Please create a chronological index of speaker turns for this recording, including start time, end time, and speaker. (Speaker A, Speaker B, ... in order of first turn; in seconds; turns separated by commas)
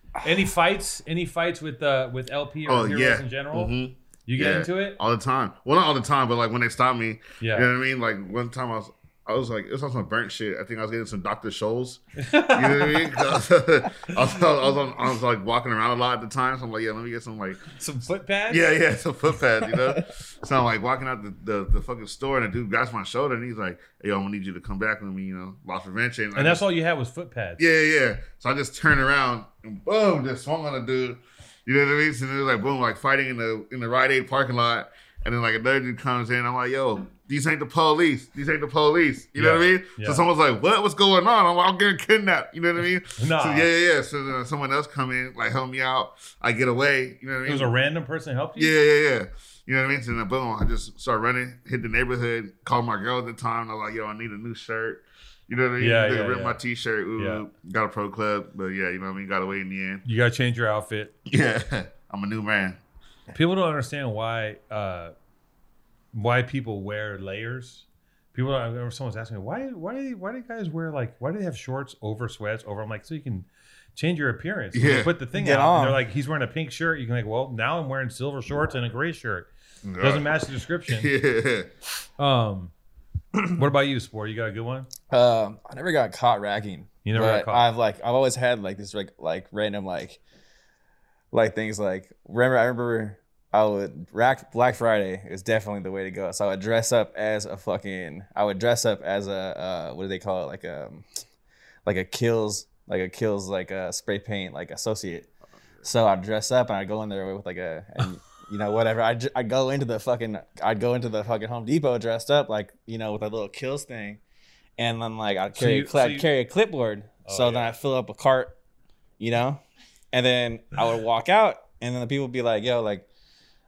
Speaker A: 0.2-3.7, Speaker B: 2.7-17.6, Speaker A: 4.3-5.0, Speaker A: 7.4-7.7, Speaker A: 12.2-13.1, Speaker A: 17.8-18.7, Speaker B: 18.5-26.6, Speaker A: 26.4-27.6, Speaker B: 27.6-47.7, Speaker A: 39.4-40.2, Speaker A: 43.2-43.7, Speaker A: 47.5-48.7, Speaker B: 48.6-60.0, Speaker A: 55.8-56.6, Speaker A: 57.2-57.5, Speaker A: 60.0-61.1, Speaker B: 61.3-62.8, Speaker A: 63.3-65.1, Speaker A: 66.1-79.5, Speaker B: 74.7-75.1, Speaker C: 75.3-76.0, Speaker B: 79.8-80.3, Speaker A: 80.0-81.1, Speaker B: 80.9-81.7, Speaker A: 82.2-82.7, Speaker C: 83.4-83.6, Speaker A: 83.6-84.9, Speaker C: 85.1-90.2, Speaker A: 87.0-87.7, Speaker C: 91.3-101.0, Speaker C: 101.8-105.3, Speaker C: 105.8-114.2, Speaker C: 114.8-118.5, Speaker A: 115.5-116.3, Speaker A: 117.3-117.8, Speaker C: 119.2-123.1